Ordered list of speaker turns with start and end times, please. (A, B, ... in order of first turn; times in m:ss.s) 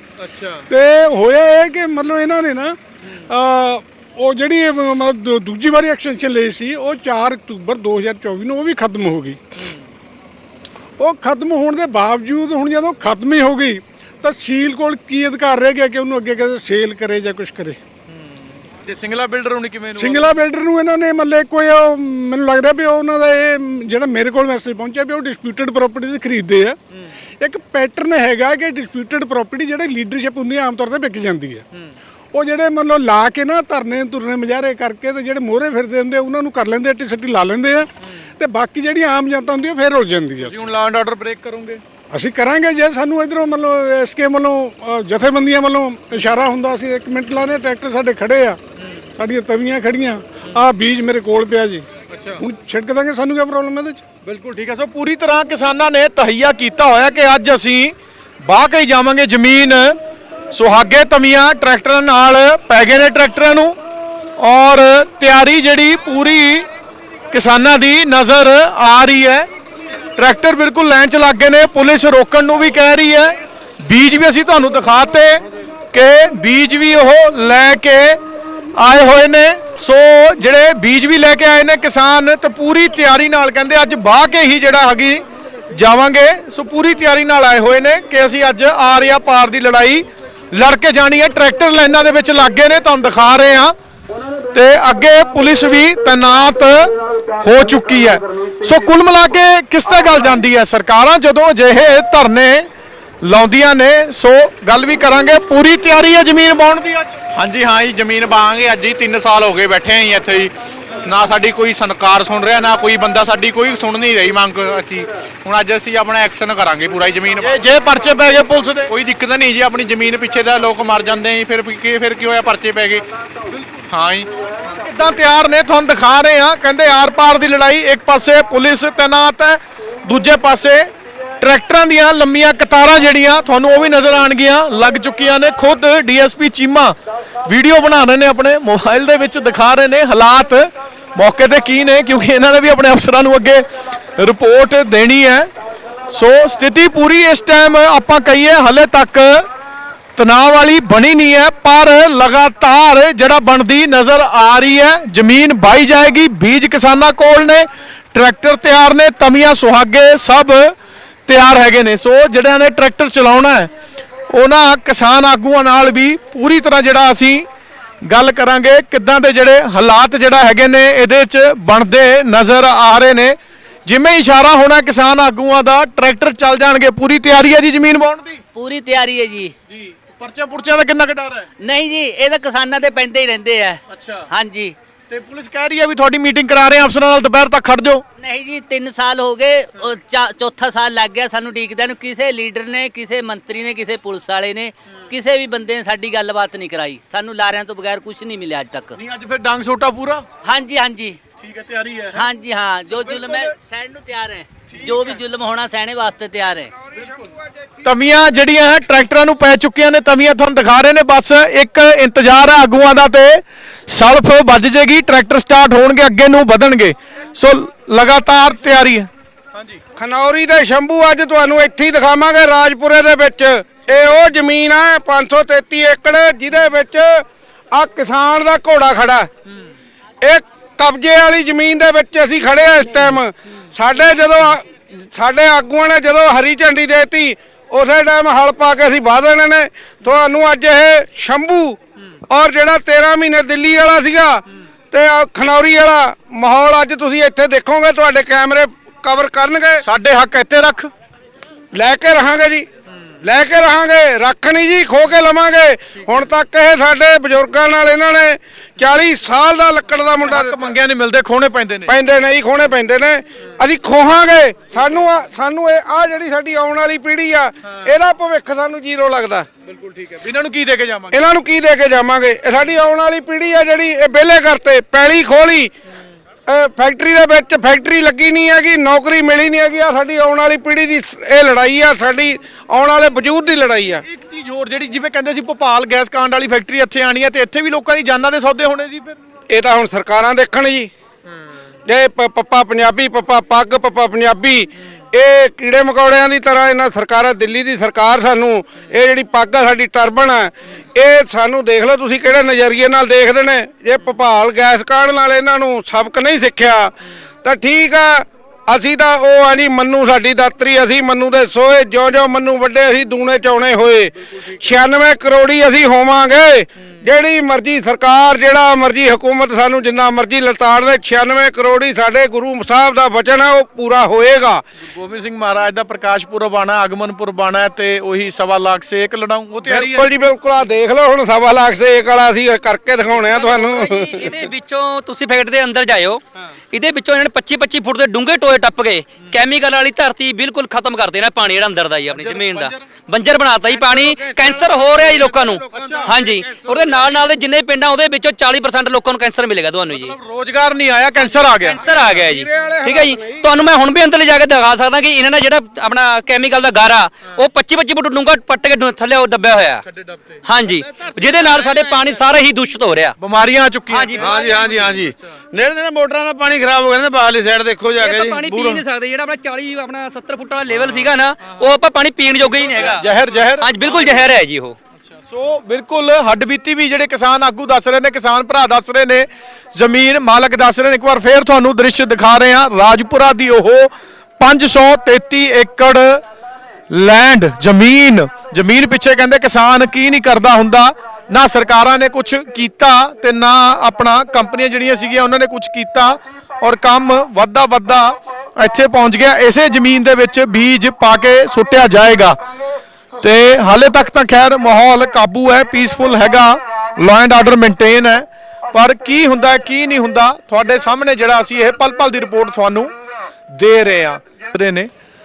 0:00.2-0:00.7 A
0:00.7-0:09.4 B
0:09.6-0:09.8 A
0:11.0-0:17.8 B
0:18.1-0:20.4 A
0:20.0-0:26.8 B
0:27.4-0:31.6 B
0:32.3-0:40.6 B
0:40.4-0:41.8 A
0:42.1-0:48.6 B
0:48.8-0:49.0 A
0:49.2-0:51.9 B
0:52.1-0:52.4 A
0:52.4-0:54.0 B
0:54.2-1:00.0 A
1:00.5-1:03.8 A
1:04.4-1:06.6 A
1:07.3-1:09.5 A
1:10.2-1:18.2 A
1:18.8-1:33.7 A
1:34.5-1:42.7 A
1:43.2-1:47.1 A
1:47.3-1:50.5 C
1:51.0-2:03.0 C
1:57.4-1:58.9 A
2:03.5-2:03.8 A
2:03.9-2:04.3 C
2:04.6-2:23.6 A
2:24.2-2:25.5 A
2:26.1-2:29.4 A
2:30.2-2:40.7 A
2:41.3-2:43.7 A
2:44.3-2:47.4 A
2:48.0-2:58.4 A
2:58.5-2:59.5 D
2:59.7-3:01.5 A
3:01.6-3:04.7 D
3:03.9-3:04.3 A
3:05.1-3:08.0 A
3:08.2-3:18.9 D
3:19.0-3:20.2 A
3:20.4-3:21.2 D
3:21.4-3:22.2 A
3:22.1-3:26.7 D
3:22.9-3:23.5 A
3:24.7-3:25.2 A
3:27.8-3:39.8 A
3:40.0-3:49.3 E
3:50.2-4:01.8 E
4:02.3-4:09.8 E
4:09.8-4:10.9 A
4:11.7-4:12.7 E
4:13.2-4:20.6 E
4:20.2-4:22.0 A
4:21.9-4:29.5 E
4:29.7-4:31.2 A
4:31.1-4:35.7 E
4:36.5-4:44.0 E
4:44.0-4:49.2 A
4:49.5-4:50.9 E
4:51.8-5:06.9 E
5:07.4-5:24.6 E
5:24.8-5:30.1 A
5:29.6-5:34.3 E
5:33.3-5:50.1 F
5:42.1-5:42.8 A
5:45.7-5:46.7 A
5:49.9-5:51.8 A
5:51.6-5:59.8 F
5:52.0-5:53.5 E
5:59.9-6:01.9 A
6:00.4-6:03.2 F
6:03.2-6:05.0 A
6:03.9-6:04.3 F
6:04.2-6:08.6 G
6:08.0-6:13.1 F
6:08.4-6:08.8 A
6:12.6-6:14.1 A
6:13.6-6:14.8 F
6:15.1-6:26.2 A
6:26.9-6:42.4 A
6:43.2-6:52.9 A
6:53.5-6:54.9 A